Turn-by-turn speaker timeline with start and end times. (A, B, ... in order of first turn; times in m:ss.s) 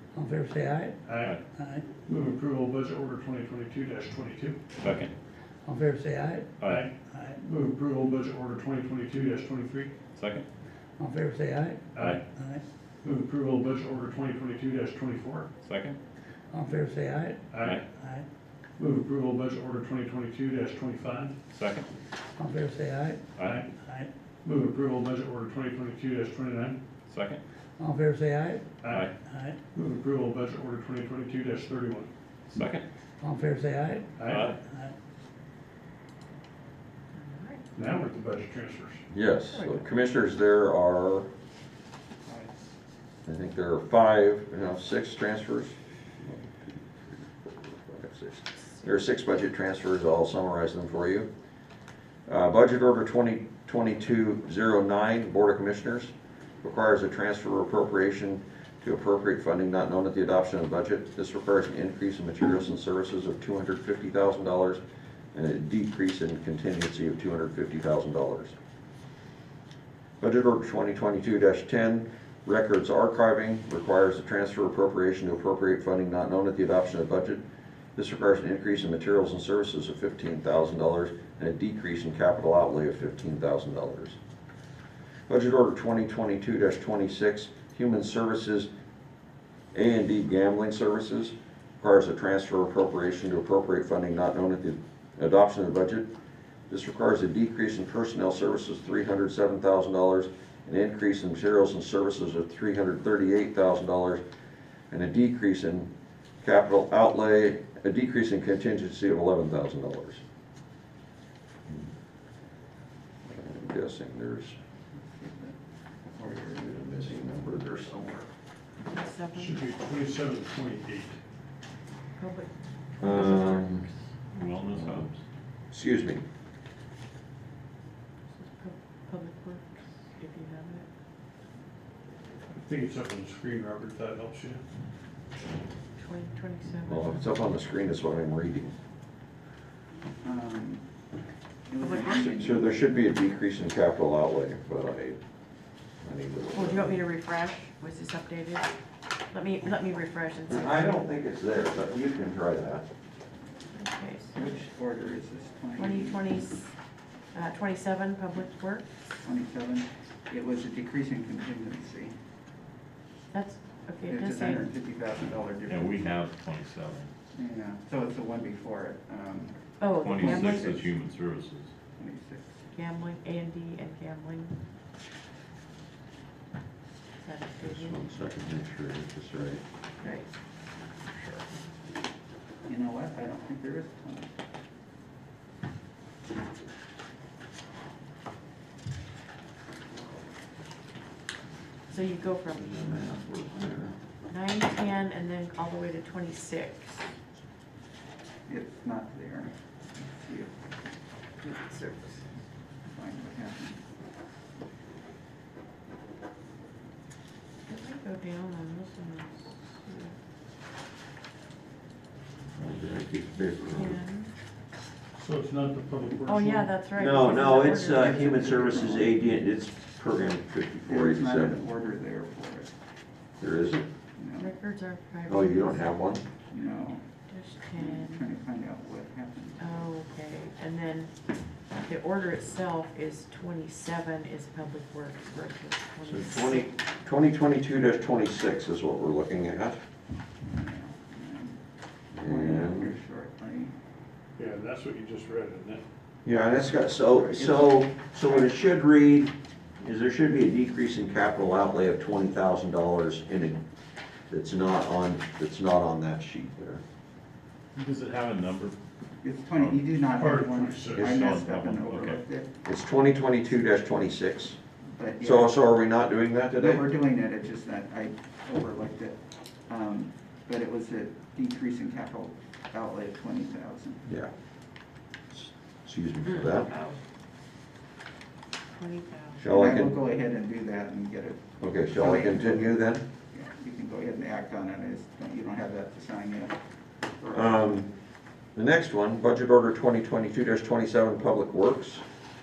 0:00.1-0:01.0 A
0:01.0-0:01.4 B
0:01.5-0:01.9 A
0:01.9-0:04.6 B
0:04.8-0:05.1 C
0:05.6-0:07.4 A
0:06.6-0:06.9 C
0:06.7-0:09.9 B
0:10.2-0:10.5 C
0:11.0-0:12.6 A
0:11.9-0:12.2 B
0:13.0-0:15.5 B
0:15.6-0:16.0 C
0:16.5-0:17.4 A
0:17.5-0:17.8 B
0:18.0-0:18.3 A
0:18.8-0:21.4 B
0:21.5-0:21.9 C
0:22.4-0:24.1 A
0:23.4-0:23.6 C
0:23.4-0:23.7 B
0:24.4-0:26.8 B
0:27.1-0:27.4 C
0:27.8-0:28.7 A
0:28.8-0:29.1 B
0:28.9-0:29.1 C
0:29.3-0:29.6 A
0:29.7-0:32.1 B
0:32.5-0:32.8 C
0:33.2-0:34.1 A
0:34.2-0:34.5 B
0:34.2-0:34.6 C
0:34.6-0:34.9 A
0:37.1-0:37.7 D
0:37.7-0:39.0 B
0:39.1-0:41.3 E
0:39.5-0:39.8 D
0:42.2-0:42.5 F
0:43.3-0:51.3 E
0:52.3-1:04.8 E
1:05.3-1:08.6 E
1:10.2-1:17.4 E
1:18.0-1:24.2 E
1:25.3-1:28.7 E
1:29.7-1:36.1 E
1:36.7-1:44.2 E
1:44.9-1:45.9 E
1:46.4-1:50.2 E
1:53.3-1:54.6 E
1:55.0-1:55.6 F
1:56.1-1:56.8 F
1:56.6-1:58.3 E
1:58.9-1:59.7 D
1:59.3-2:01.2 B
2:02.2-2:04.0 D
2:03.0-2:03.9 E
2:04.3-2:05.2 C
2:05.7-2:06.2 E
2:08.4-2:10.9 D
2:12.5-2:14.6 B
2:16.0-2:17.3 D
2:16.9-2:18.8 E
2:20.2-2:20.8 F
2:21.7-2:23.1 F
2:21.8-2:22.4 D
2:22.2-2:25.2 E
2:26.0-2:27.0 E
2:26.5-2:28.7 D
2:29.3-2:30.9 D
2:30.5-2:32.9 E
2:33.7-2:34.5 D
2:34.3-2:36.3 F
2:35.8-2:36.7 D
2:37.3-2:38.9 D
2:39.2-2:42.2 F
2:43.3-2:44.7 D
2:44.1-2:46.0 F
2:45.7-2:47.1 C
2:47.3-2:49.6 F
2:49.8-2:50.9 D
2:50.0-2:51.7 C
2:50.2-2:50.8 F
2:52.0-2:52.6 F
2:52.7-2:54.6 D
2:57.2-2:58.0 D
2:57.6-2:59.6 E
3:00.0-3:00.3 D
3:01.0-3:01.4 D
3:02.7-3:04.3 F
3:11.9-3:13.0 D
3:12.6-3:13.9 E
3:14.3-3:17.0 D
3:18.5-3:20.5 F
3:21.4-3:22.2 D
3:22.8-3:23.9 F
3:27.7-3:30.2 D
3:32.6-3:34.0 E
3:33.7-3:34.3 D
3:35.2-3:36.9 B
3:36.2-3:38.7 D
3:37.0-3:41.6 E
3:37.9-3:39.1 F
3:40.9-3:42.7 F
3:43.4-3:43.9 E
3:44.2-3:44.6 F
3:44.4-3:45.9 D
3:45.3-3:46.2 E
3:46.5-3:47.0 F
3:47.3-3:48.3 D
3:47.8-3:49.9 F
3:49.6-3:51.1 D
3:51.8-3:56.7 D
3:56.1-3:59.8 E
4:00.4-4:01.6 F
4:02.2-4:02.9 E
4:02.2-4:03.7 F
4:04.4-4:05.8 B
4:06.2-4:13.6 E
4:07.2-4:08.5 F
4:14.3-4:16.8 E
4:17.8-4:18.8 C
4:19.2-4:22.5 F
4:19.5-4:19.8 C
4:20.1-4:21.2 B
4:21.0-4:22.2 C
4:22.6-4:24.6 E
4:24.9-4:25.6 F
4:25.2-4:26.9 E
4:26.5-4:29.2 F
4:29.7-4:34.0 F
4:35.3-4:36.7 E
4:36.3-4:37.0 D
4:38.7-4:39.5 D
4:39.4-4:40.0 E
4:39.5-4:46.6 F
4:41.6-4:43.0 E
4:47.2-4:47.5 F
4:47.3-4:47.9 E
4:48.6-4:52.0 E